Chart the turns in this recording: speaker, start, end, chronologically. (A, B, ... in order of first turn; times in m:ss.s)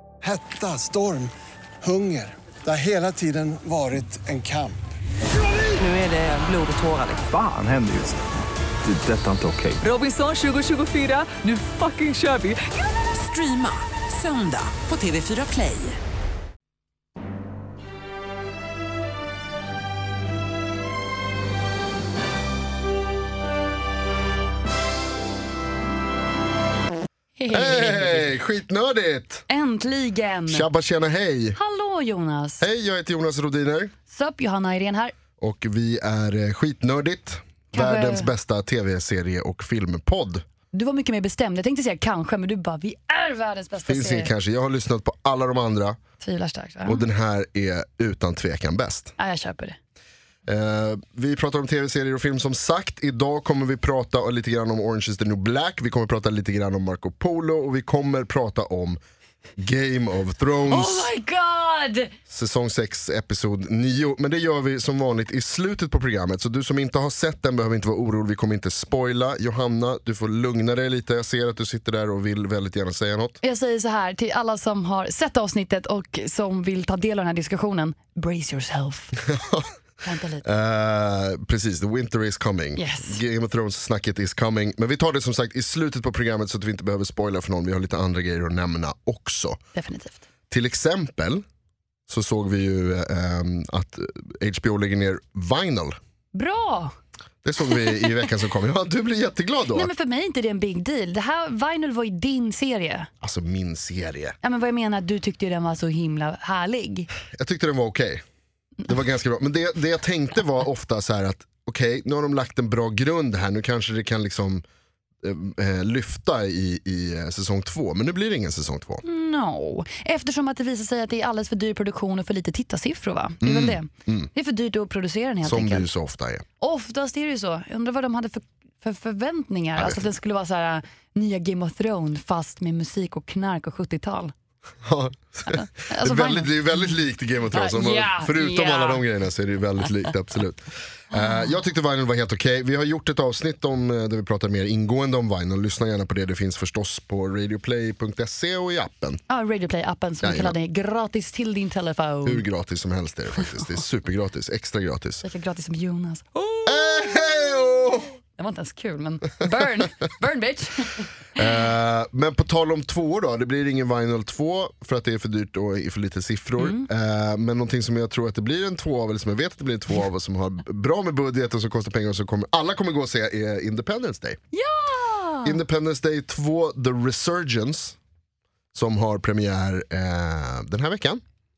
0:00.2-0:04.8 A
0:05.8-0:07.3 B
0:07.3-0:08.2 C
0:08.8-0:09.8 C
0:09.8-0:16.0 B
0:27.4-0:28.3 D
0:27.5-0:29.4 E
0:29.5-0:30.7 D
0:30.5-0:31.6 E
0:31.6-0:32.6 D
0:32.6-0:33.9 E
0:34.1-0:35.1 D
0:35.4-0:40.4 E
0:37.7-0:38.3 D
0:40.7-0:44.3 D
0:43.9-0:46.0 E
0:46.2-0:47.0 D
0:46.8-0:49.1 E
0:49.2-0:49.8 D
0:50.5-0:59.0 E
0:59.6-1:01.1 E
1:00.7-1:02.1 D
1:02.3-1:13.4 E
1:13.4-1:19.2 D
1:19.3-1:19.7 E
1:20.0-1:20.4 D
1:20.4-1:29.6 E
1:22.8-1:23.2 D
1:29.7-1:30.2 D
1:30.5-1:31.4 E
1:32.1-1:36.0 E
1:36.3-1:36.9 D
1:37.4-1:39.9 E
1:37.7-1:38.1 D
1:39.7-1:43.1 D
1:43.2-1:44.4 E
1:44.4-1:47.1 D
1:47.2-1:48.2 E
1:48.8-1:54.6 E
1:55.2-1:59.0 E
1:59.0-2:05.9 D
2:03.4-2:04.3 E
2:05.4-2:06.4 E
2:06.6-2:14.3 D
2:09.8-2:10.0 E
2:14.8-2:29.2 E
2:15.5-2:16.9 D
2:17.5-2:19.0 D
2:29.3-2:32.4 D
2:30.2-2:30.6 E
2:32.2-2:35.2 E
2:35.2-2:36.9 D
2:36.6-2:38.2 E
2:38.4-2:41.1 D
2:41.4-2:54.4 E
2:46.6-2:46.9 D
2:54.5-2:55.6 D
2:55.4-2:58.0 E
2:58.7-3:01.2 E